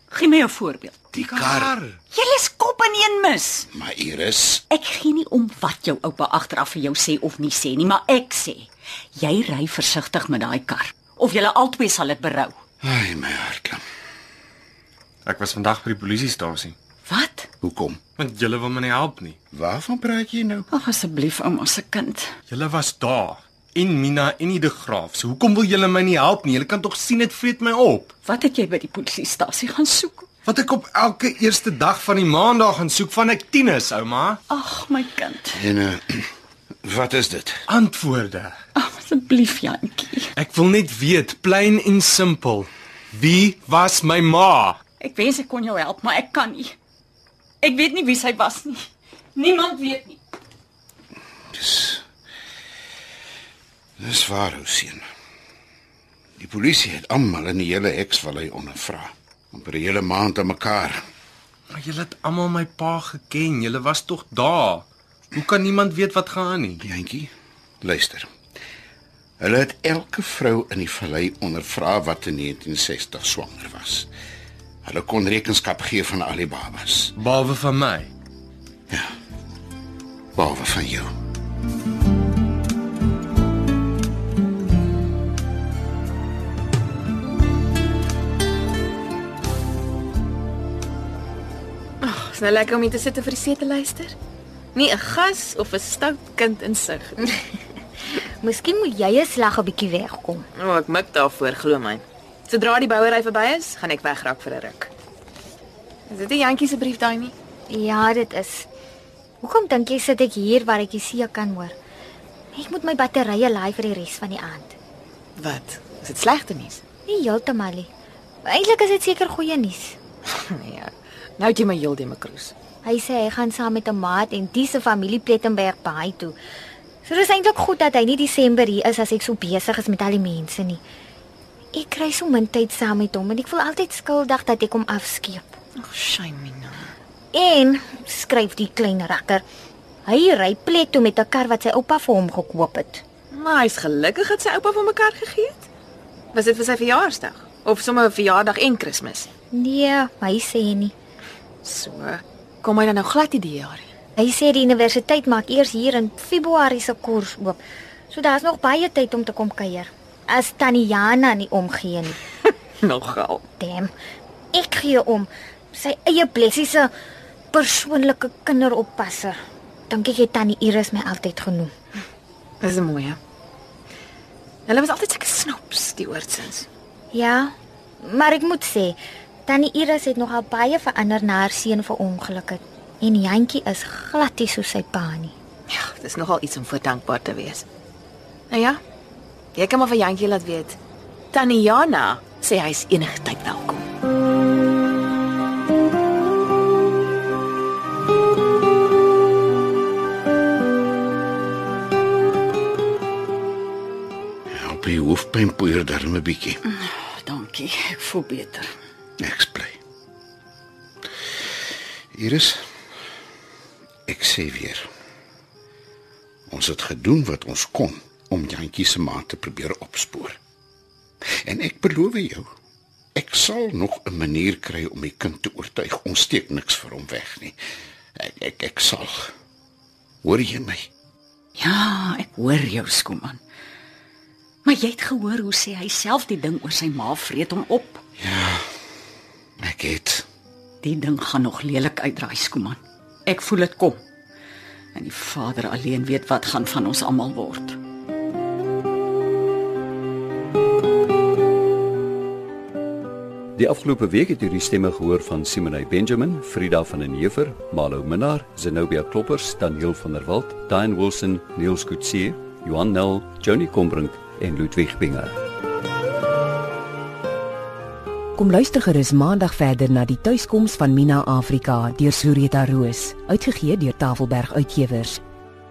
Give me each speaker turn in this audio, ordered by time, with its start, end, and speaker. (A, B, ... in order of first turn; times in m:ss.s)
0:00.1-0:01.5 A
0:01.2-0:02.0 B
0:01.3-0:01.7 C
0:02.1-0:03.7 A
0:03.7-0:04.6 C
0:04.7-0:12.5 A
0:12.8-0:13.8 C
0:15.3-0:16.8 B
0:17.1-0:17.5 A
0:17.6-0:18.0 C
0:18.2-0:19.4 B
0:19.5-0:20.7 C
0:20.7-0:22.3 A
0:22.5-0:28.1 B
0:28.2-0:30.3 A
0:30.5-0:34.4 B
0:34.5-0:35.6 A
0:35.5-0:36.2 C
0:36.8-0:37.6 C
0:37.7-0:38.5 B
0:38.8-0:40.3 A
0:40.4-0:44.8 B
0:45.0-0:46.8 A
0:47.6-0:50.2 A
0:51.5-0:52.0 C
0:54.0-0:55.0 C
0:56.4-1:01.0 C
1:01.7-1:06.8 B
1:06.8-1:07.3 C
1:07.8-1:08.3 C
1:09.4-1:14.1 C
1:14.8-1:17.1 C
1:17.2-1:18.1 B
1:20.4-1:21.1 C
1:32.0-1:34.2 D
1:34.7-1:37.4 D
1:38.2-1:40.4 E
1:40.6-1:44.9 D
1:46.1-1:47.3 D
1:47.7-1:48.7 E
1:49.4-1:51.8 E
1:52.5-1:54.8 E
1:55.4-1:56.8 D
1:57.1-1:57.9 E
1:58.4-2:00.0 E
2:00.3-2:02.5 D
2:02.8-2:06.3 E
2:07.1-2:10.8 E
2:11.7-2:15.5 E
2:15.8-2:16.9 D
2:17.3-2:19.4 E
2:20.1-2:23.0 E
2:23.3-2:25.7 D
2:26.3-2:29.3 D
2:29.5-2:30.9 E
2:31.6-2:33.9 D
2:34.2-2:37.6 E
2:38.1-2:42.2 E
2:42.5-2:43.4 D
2:43.6-2:43.9 E
2:44.5-2:46.9 E
2:47.5-2:49.4 E
2:49.9-2:51.7 E
2:52.6-2:53.2 D
2:54.7-2:56.7 D
2:57.1-3:05.3 E
3:05.7-3:07.7 D
3:08.5-3:08.8 D
3:09.6-3:10.8 D
3:11.3-3:13.9 D
3:24.5-3:26.6 C
3:26.6-3:28.7 A
3:29.2-3:29.8 C
3:32.2-3:32.6 C
3:34.1-3:34.9 C
3:36.5-3:40.4 C
3:41.4-3:42.5 C
3:43.2-3:47.6 C
3:48.2-3:49.3 C
3:50.2-3:50.9 C
3:51.6-3:53.4 A
3:54.6-3:58.0 A
3:58.2-3:58.6 C
3:59.6-4:00.3 C
4:00.8-4:04.0 A
4:05.0-4:07.8 A
4:13.6-4:25.4 F
4:28.4-4:35.2 G